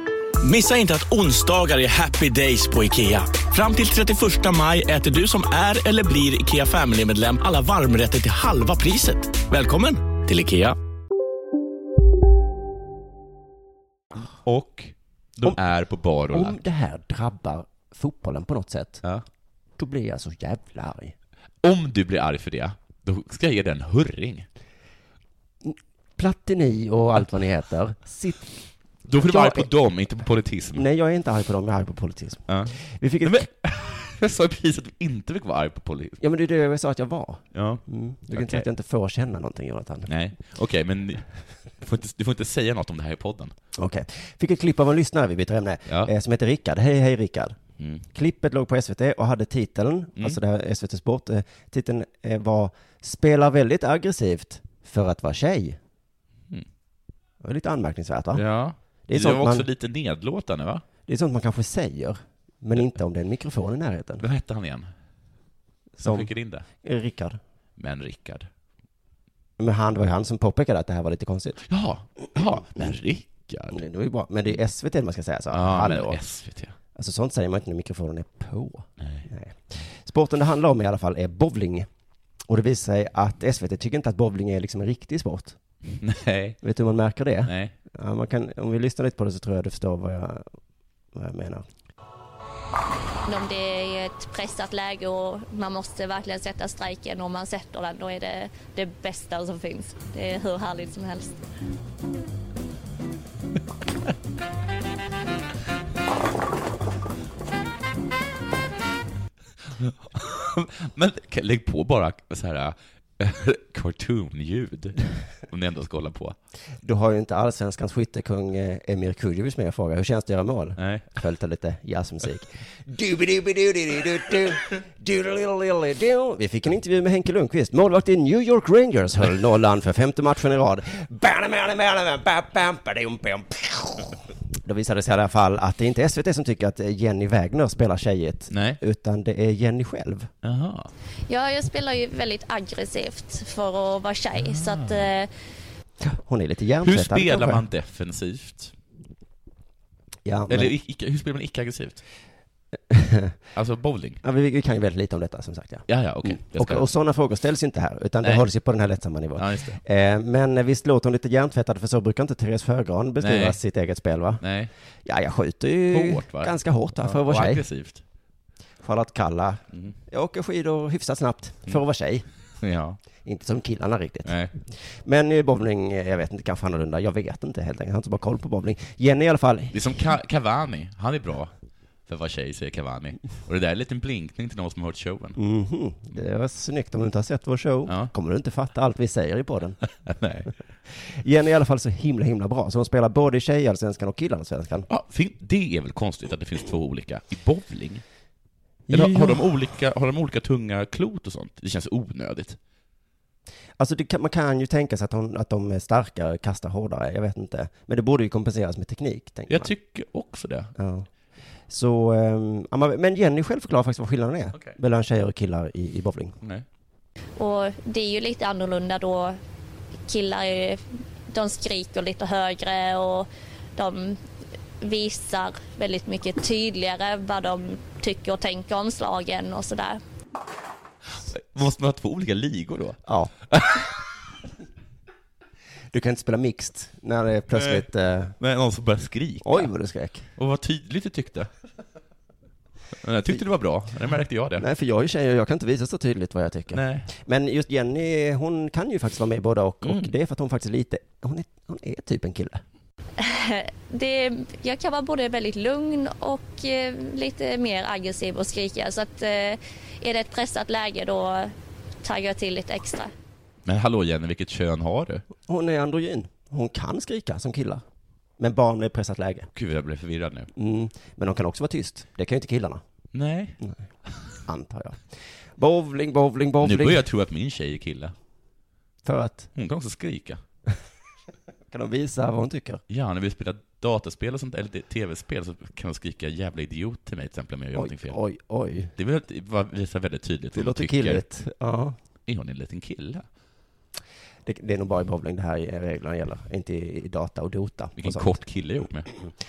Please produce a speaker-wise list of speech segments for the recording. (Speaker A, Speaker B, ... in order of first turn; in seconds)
Speaker A: 0.4-10.8
Speaker B: 14.2-16.6, 21.6-24.4, 29.1-30.9, 32.5-36.2, 37.5-38.7, 40.1-41.3, 41.8-43.5, 47.8-48.0, 58.3-60.8, 64.2-64.9, 66.0-66.7, 67.8-68.5, 71.6-73.8, 75.5-76.8, 79.0-79.3, 85.9-86.6, 87.5-87.8, 109.8-116.4, 120.8-121.1, 138.5-138.8, 140.4-140.9, 144.4-145.1, 146.8-148.7, 150.5-152.0, 153.6-154.2, 155.9-156.9, 159.4-159.8, 163.2-163.6, 164.4-164.7, 165.9-168.0, 172.6-173.0, 174.3-174.5, 179.7-181.5, 182.1-185.4, 189.9-190.5, 194.9-198.0, 198.9-202.6, 209.5-210.7, 231.2-233.9, 237.5-237.9, 238.4-239.7, 240.4-241.5, 243.0-244.7, 246.7-247.1, 249.8-250.1, 263.6-265.2, 269.5-270.5, 273.1-273.6, 276.6-278.1, 279.6-280.4, 282.9-288.2, 288.9-291.2, 292.3-293.2, 298.0-299.1
Speaker C: 16.3-19.0, 19.8-21.1, 25.6-28.5, 29.3-29.7, 30.8-33.5, 36.2-40.1, 43.8-47.6, 48.1-55.8, 57.4-58.4, 59.1-59.7, 61.1-64.2, 66.0-66.3, 66.8-67.4, 69.6-71.6, 72.4-72.8, 73.7-76.2, 76.9-81.9, 82.5-85.6, 86.6-90.5, 91.1-91.7, 116.8-140.3, 146.0-147.6, 150.3-150.7, 152.9-153.4, 154.2-164.4, 165.1-167.6, 168.8-172.2, 173.2-179.8, 185.4-189.8, 190.9-194.9, 198.9-199.4, 203.8-209.7, 210.8-211.1, 211.7-216.4, 233.1-233.3, 235.9-238.4, 239.4-240.3, 244.6-252.6, 265.4-267.8, 268.4-269.5, 270.6-272.8, 274.4-277.0, 279.1-279.5, 281.7-282.8, 287.8-288.9, 290.6-291.9, 294.4-298.4
Speaker D: 93.3-101.3, 141.3-145.3, 217.4-219.4, 220.1-224.2, 224.8-230.0, 253.2-261.5, 262.0-263.1